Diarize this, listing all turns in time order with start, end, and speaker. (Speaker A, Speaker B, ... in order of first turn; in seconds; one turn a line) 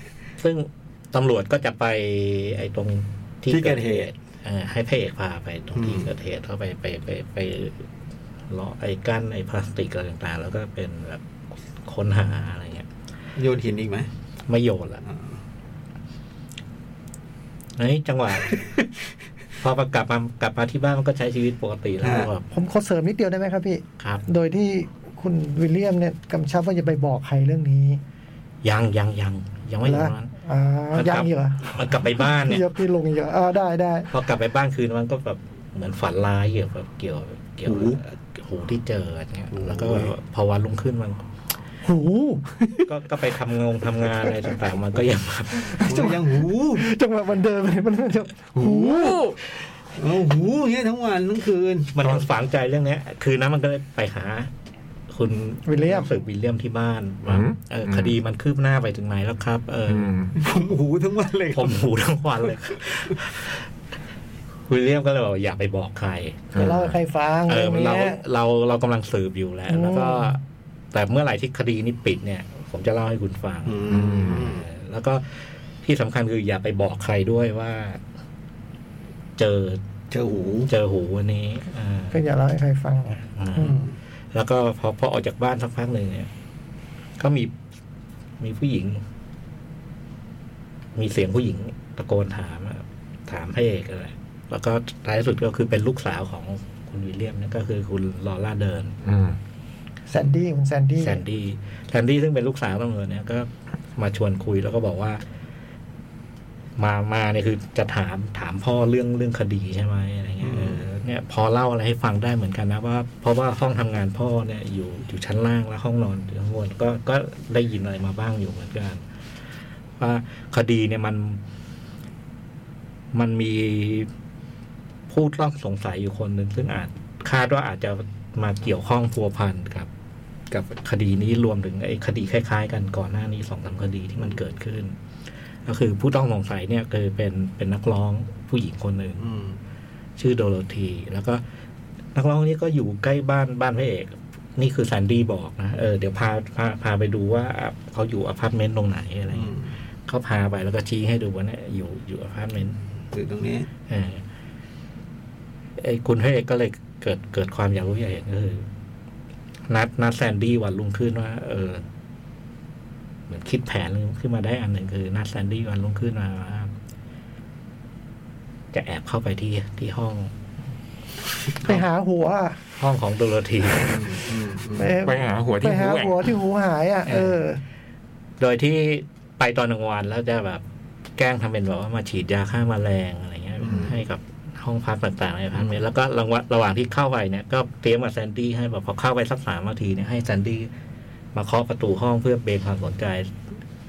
Speaker A: 0.4-7.9
Speaker B: 3.5-4.1
Speaker B: 5.8-6.1
Speaker A: 8.5-11.2
Speaker A: 11.8-12.9
Speaker B: 13.4-14.1
Speaker A: 14.5-15.0
Speaker A: 17.8-18.7
Speaker A: 19.6-22.4
Speaker B: 22.0-22.3
Speaker C: 22.5-28.0
Speaker A: 24.0-24.2
Speaker A: 28.6-30.3
Speaker C: 29.8-34.1
Speaker A: 30.9-32.6
Speaker A: 34.1-41.2
Speaker B: 37.7-38.0
Speaker B: 39.5-40.1
Speaker C: 41.8-42.6
Speaker A: 42.9-45.9
Speaker C: 45.7-49.2
Speaker B: 45.8-46.9
Speaker D: 48.5-49.4
Speaker B: 49.9-52.2
Speaker A: 51.9-54.5
Speaker A: 55.1-60.1
Speaker C: 55.6-56.1
Speaker D: 57.3-58.1
Speaker D: 59.9-60.3
Speaker B: 60.3-61.8
Speaker A: 61.5-63.6
Speaker A: 64.7-66.6
Speaker D: 66.5-66.9
Speaker C: 66.5-68.2
Speaker A: 67.5-70.4
Speaker C: 69.7-70.4
Speaker A: 70.9-78.0
Speaker B: 73.7-74.7
Speaker D: 73.9-74.5
Speaker A: 79.4-79.8
Speaker B: 80.1-80.7
Speaker A: 80.7-82.2
Speaker C: 82.1-83.8
Speaker A: 83.4-86.3
Speaker B: 83.6-83.9
Speaker A: 87.2-87.5
Speaker A: 88.4-89.0
Speaker A: 90.9-99.0
Speaker D: 99.0-99.4
Speaker C: 100.1-101.2
Speaker A: 101.0-105.2
Speaker A: 106.8-119.0
Speaker B: 110.4-110.8
Speaker A: 120.0-121.4
Speaker A: 123.1-124.1
Speaker A: 125.1-129.9
Speaker A: 130.5-134.9
Speaker A: 135.7-139.2
Speaker B: 139.2-139.6
Speaker A: 140.2-141.4
Speaker A: 142.1-152.8
Speaker B: 149.3-149.7
Speaker B: 153.1-153.7
Speaker A: 153.9-154.2
Speaker A: 155.8-158.7
Speaker A: 159.7-161.8
Speaker A: 163.3-166.7
Speaker A: 168.7-170.3
Speaker C: 171.6-172.6
Speaker A: 172.8-174.2
Speaker B: 173.8-175.0
Speaker C: 174.8-177.6
Speaker D: 175.0-176.3
Speaker A: 177.1-177.4
Speaker A: 178.4-180.6
Speaker A: 181.2-190.7
Speaker B: 183.6-184.0
Speaker A: 191.3-193.3